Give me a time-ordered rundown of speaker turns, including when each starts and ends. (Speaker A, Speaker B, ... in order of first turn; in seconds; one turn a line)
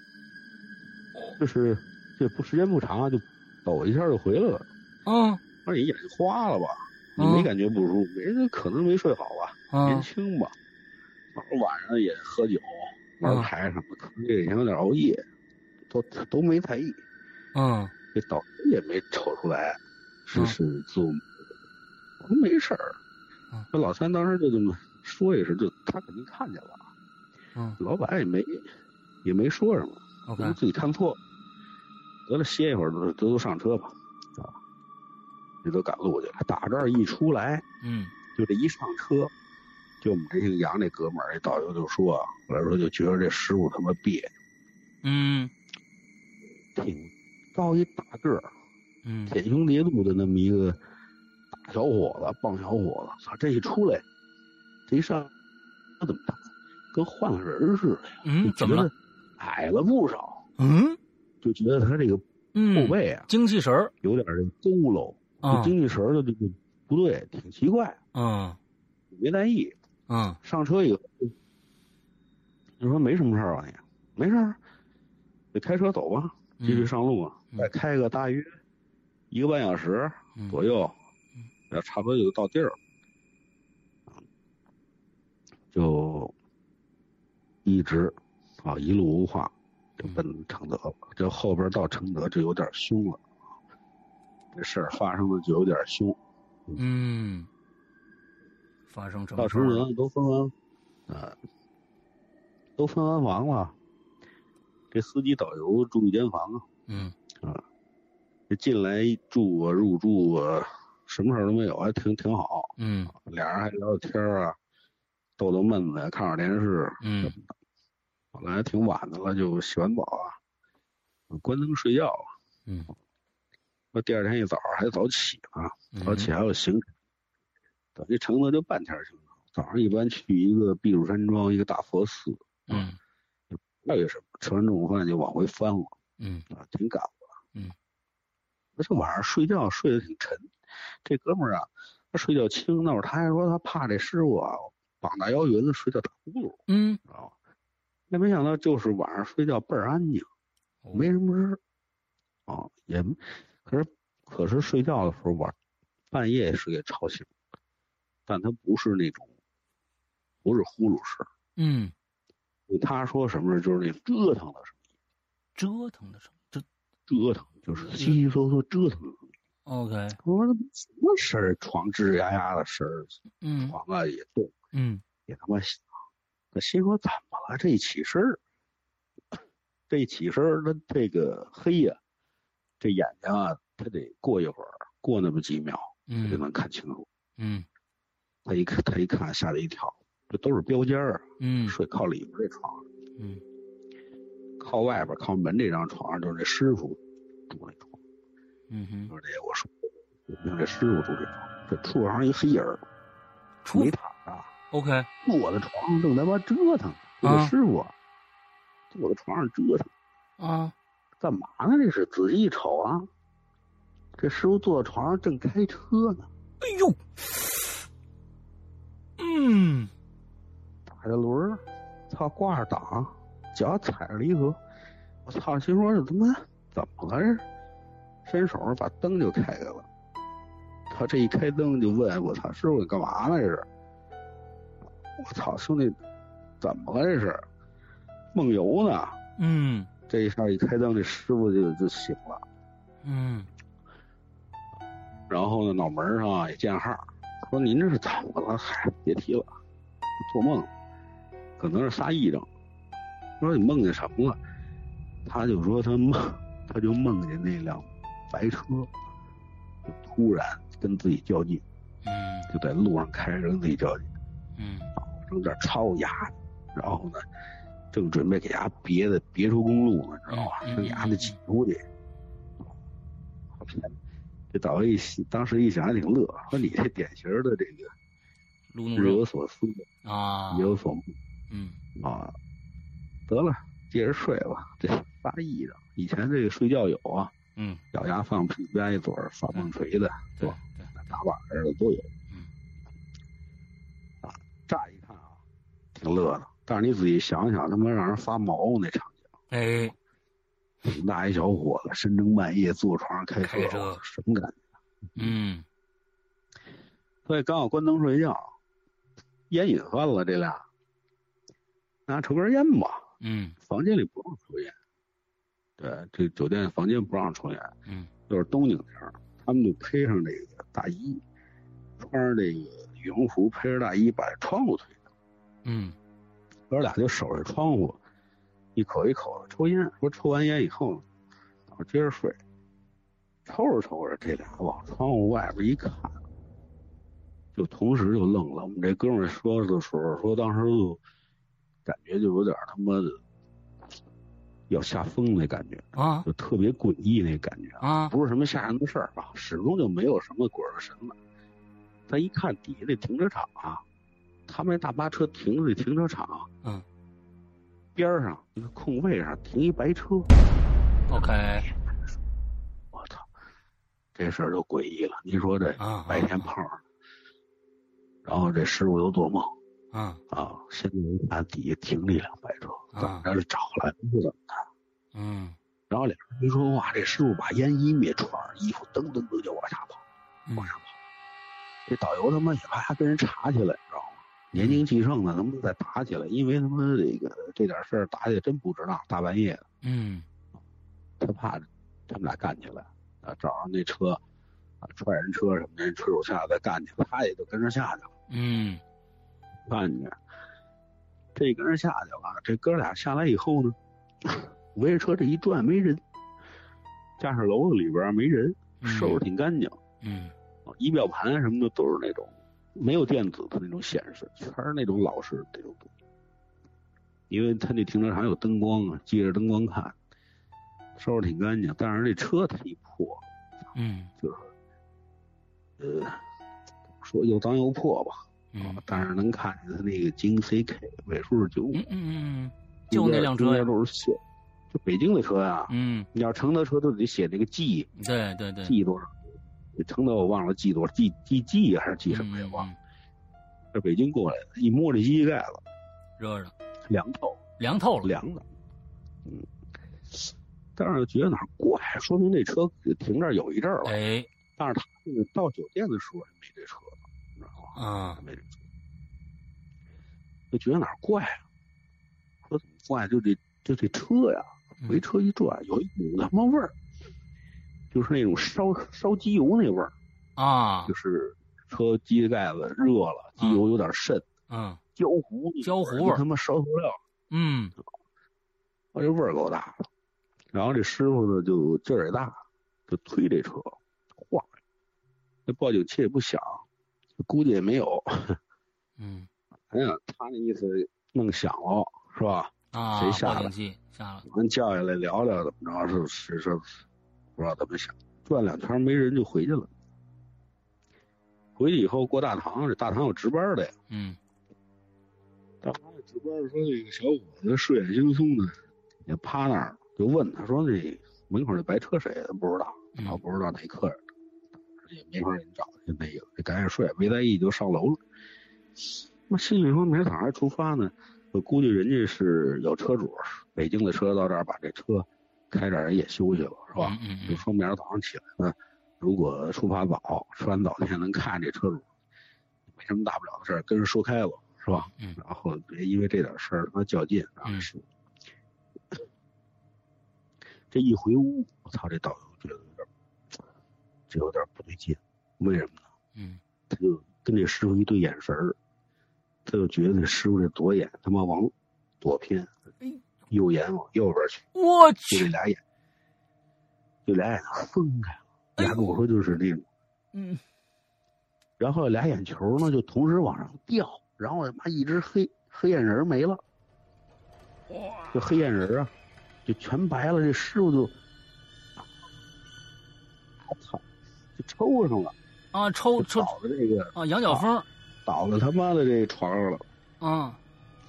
Speaker A: 1.4-4.7
Speaker B: 5.0-5.4
Speaker A: 5.6-10.5
Speaker B: 7.2-7.5
Speaker B: 9.7-10.1
Speaker A: 11.3-15.2
Speaker A: 15.9-17.0
Speaker B: 17.5-17.9
Speaker A: 18.1-21.2
Speaker A: 22.2-23.0
Speaker A: 23.7-26.9
Speaker A: 27.8-28.7
Speaker A: 29.2-31.2
Speaker B: 30.2-30.6
Speaker A: 32.3-34.6
Speaker A: 35.6-37.6
Speaker B: 37.8-38.1
Speaker A: 38.3-39.3
Speaker A: 40.0-44.3
Speaker B: 45.0-45.5
Speaker A: 46.7-48.5
Speaker B: 49.0-49.3
Speaker A: 49.3-50.8
Speaker A: 51.5-54.0
Speaker A: 54.9-55.3
Speaker A: 56.0-60.4
Speaker B: 58.2-58.9
Speaker B: 60.6-61.0
Speaker A: 61.4-63.3
Speaker B: 62.5-63.9
Speaker A: 64.0-68.0
Speaker B: 65.4-65.7
Speaker B: 68.1-68.6
Speaker A: 69.1-69.7
Speaker B: 70.1-70.4
Speaker A: 70.4-71.3
Speaker A: 72.8-74.6
Speaker A: 75.5-78.6
Speaker B: 76.6-76.9
Speaker A: 79.3-81.0
Speaker A: 81.7-82.8
Speaker A: 85.7-86.3
Speaker A: 87.6-93.2
Speaker A: 94.5-96.2
Speaker B: 96.8-97.5
Speaker B: 98.9-99.8
Speaker A: 99.4-100.5
Speaker A: 101.1-101.4
Speaker A: 102.8-103.7
Speaker A: 104.9-106.7
Speaker B: 106.9-107.1
Speaker A: 108.5-114.6
Speaker B: 112.8-113.1
Speaker A: 115.4-117.5
Speaker B: 117.0-117.3
Speaker A: 118.3-120.4
Speaker A: 121.3-122.3
Speaker A: 123.9-126.9
Speaker B: 125.9-126.3
Speaker A: 127.9-132.9
Speaker B: 132.7-133.0
Speaker A: 133.5-135.9
Speaker B: 136.2-136.4
Speaker A: 136.5-137.3
Speaker A: 138.8-140.5
Speaker A: 141.0-147.3
Speaker B: 146.7-147.0
Speaker A: 148.1-150.3
Speaker B: 150.8-151.1
Speaker A: 150.9-151.6
Speaker A: 152.5-155.5
Speaker A: 156.1-157.3
Speaker A: 158.3-159.3
Speaker A: 160.4-161.3
Speaker B: 161.6-161.9
Speaker A: 162.7-164.8
Speaker B: 165.6-166.6
Speaker A: 167.1-169.2
Speaker B: 167.9-168.2
Speaker B: 169.7-170.2
Speaker A: 170.2-174.5
Speaker B: 173.4-173.8
Speaker B: 174.7-175.0
Speaker A: 175.2-175.8
Speaker A: 176.5-178.4
Speaker A: 179.9-182.0
Speaker A: 182.8-187.1
Speaker B: 186.1-186.4
Speaker B: 187.4-187.7
Speaker A: 188.4-192.8
Speaker B: 191.4-191.8
Speaker A: 194.6-198.0
Speaker B: 198.7-199.1
Speaker A: 199.1-202.8
Speaker B: 203.6-203.9
Speaker A: 203.7-204.5
Speaker B: 204.7-205.1
Speaker A: 205.2-207.9
Speaker B: 207.2-207.5
Speaker A: 208.9-209.9
Speaker B: 210.4-210.7
Speaker A: 211.2-213.1
Speaker A: 214.2-216.3
Speaker B: 216.6-217.0
Speaker B: 219.2-219.9
Speaker A: 220.9-224.6
Speaker A: 225.2-227.4
Speaker A: 228.2-229.9
Speaker A: 230.9-233.7
Speaker A: 235.2-236.0
Speaker A: 236.6-237.4
Speaker A: 238.3-239.2
Speaker B: 239.4-239.9
Speaker A: 240.1-242.4
Speaker B: 243.0-243.5
Speaker A: 245.3-249.5
Speaker A: 250.2-250.7
Speaker A: 251.6-252.5
Speaker A: 253.4-254.4
Speaker A: 255.2-258.9
Speaker A: 259.9-261.6
Speaker B: 262.0-262.5
Speaker A: 262.5-264.1
Speaker B: 264.6-264.9
Speaker A: 265.0-267.2
Speaker A: 267.9-271.8
Speaker B: 270.3-271.4
Speaker A: 273.6-273.9
Speaker A: 274.5-277.9
Speaker B: 278.7-279.2
Speaker A: 278.9-279.9
Speaker B: 280.0-280.7
Speaker A: 280.5-281.1
Speaker B: 281.5-281.8
Speaker A: 282.0-282.3
Speaker A: 283.3-287.3
Speaker B: 287.6-287.8
Speaker A: 287.9-292.1
Speaker B: 290.4-290.9
Speaker A: 294.2-295.4
Speaker A: 295.9-299.2
Speaker B: 299.5-299.9
Speaker A: 300.8-304.6
Speaker B: 303.4-304.0
Speaker B: 305.2-305.6
Speaker A: 307.2-308.5
Speaker A: 309.5-310.6
Speaker A: 312.1-313.0
Speaker B: 313.2-313.6
Speaker A: 313.6-314.7
Speaker A: 315.8-317.7
Speaker A: 318.3-321.2
Speaker A: 322.0-325.0
Speaker B: 325.6-325.9
Speaker A: 326.7-328.0
Speaker A: 328.8-331.0
Speaker A: 331.7-332.4
Speaker A: 333.4-336.2
Speaker A: 337.5-341.0
Speaker A: 341.8-343.2
Speaker A: 344.7-351.1
Speaker B: 345.9-346.3
Speaker B: 347.8-348.1
Speaker A: 352.1-353.8
Speaker A: 354.5-356.5
Speaker A: 357.9-360.3
Speaker B: 361.1-361.7
Speaker A: 361.1-361.7
Speaker A: 362.9-363.3
Speaker A: 364.1-366.8
Speaker B: 365.8-366.5
Speaker A: 368.2-369.5
Speaker B: 369.9-370.2
Speaker A: 370.3-374.6
Speaker B: 372.9-373.3
Speaker B: 375.1-375.6
Speaker A: 375.9-380.0
Speaker A: 380.6-381.0
Speaker A: 381.9-389.6
Speaker B: 384.5-384.8
Speaker B: 389.8-390.2
Speaker A: 391.2-394.2
Speaker A: 394.8-398.1
Speaker B: 398.3-398.8
Speaker A: 399.7-400.2
Speaker A: 401.3-406.0
Speaker A: 407.2-409.8
Speaker B: 408.8-409.2
Speaker B: 410.0-410.3
Speaker A: 410.7-415.9
Speaker A: 417.3-419.9
Speaker A: 421.0-423.2
Speaker B: 423.7-424.1
Speaker A: 424.2-424.5
Speaker A: 425.8-426.2
Speaker A: 427.0-431.9
Speaker B: 428.5-428.8
Speaker B: 431.7-433.7
Speaker A: 432.9-434.2
Speaker A: 434.7-437.9
Speaker B: 435.7-436.1
Speaker B: 438.0-438.7
Speaker A: 438.6-439.1
Speaker A: 439.8-442.7
Speaker B: 442.1-442.8
Speaker A: 443.7-445.6
Speaker B: 446.2-446.5
Speaker A: 446.9-447.4
Speaker B: 447.6-448.1
Speaker A: 448.0-448.4
Speaker A: 450.1-453.9
Speaker B: 453.8-454.3
Speaker A: 454.6-458.6
Speaker B: 457.7-458.2
Speaker A: 460.5-461.4
Speaker A: 462.4-466.7
Speaker A: 467.9-469.9
Speaker B: 470.4-470.9
Speaker A: 470.9-474.3
Speaker B: 473.4-473.6
Speaker B: 474.5-474.8
Speaker A: 474.9-477.0
Speaker B: 475.6-476.2
Speaker B: 477.3-477.7
Speaker A: 478.9-479.9
Speaker A: 480.5-484.5
Speaker A: 485.5-486.6
Speaker A: 487.2-488.4
Speaker B: 489.0-489.3
Speaker A: 489.7-493.5
Speaker B: 492.7-494.2
Speaker A: 494.2-496.8
Speaker A: 497.4-499.7
Speaker A: 501.6-503.7
Speaker B: 503.9-504.2
Speaker A: 505.6-514.0
Speaker B: 512.9-513.2
Speaker A: 514.8-518.0
Speaker A: 518.8-531.9
Speaker B: 526.8-527.4
Speaker A: 532.7-537.8
Speaker B: 534.9-535.2
Speaker B: 537.4-537.7
Speaker A: 540.7-542.9
Speaker A: 544.1-545.8
Speaker B: 546.1-546.4
Speaker A: 546.7-548.5
Speaker A: 549.4-552.5
Speaker A: 553.3-554.5
Speaker B: 554.5-555.3
Speaker A: 555.1-555.6
Speaker A: 557.0-559.6
Speaker B: 558.6-559.0
Speaker B: 560.1-560.4
Speaker A: 561.6-566.4
Speaker B: 567.8-568.1
Speaker A: 568.1-568.9
Speaker A: 569.5-571.0
Speaker A: 573.4-573.8
Speaker A: 574.4-575.1
Speaker B: 575.5-576.3
Speaker A: 576.0-577.4
Speaker B: 576.9-577.7
Speaker A: 578.0-579.6
Speaker B: 580.0-580.4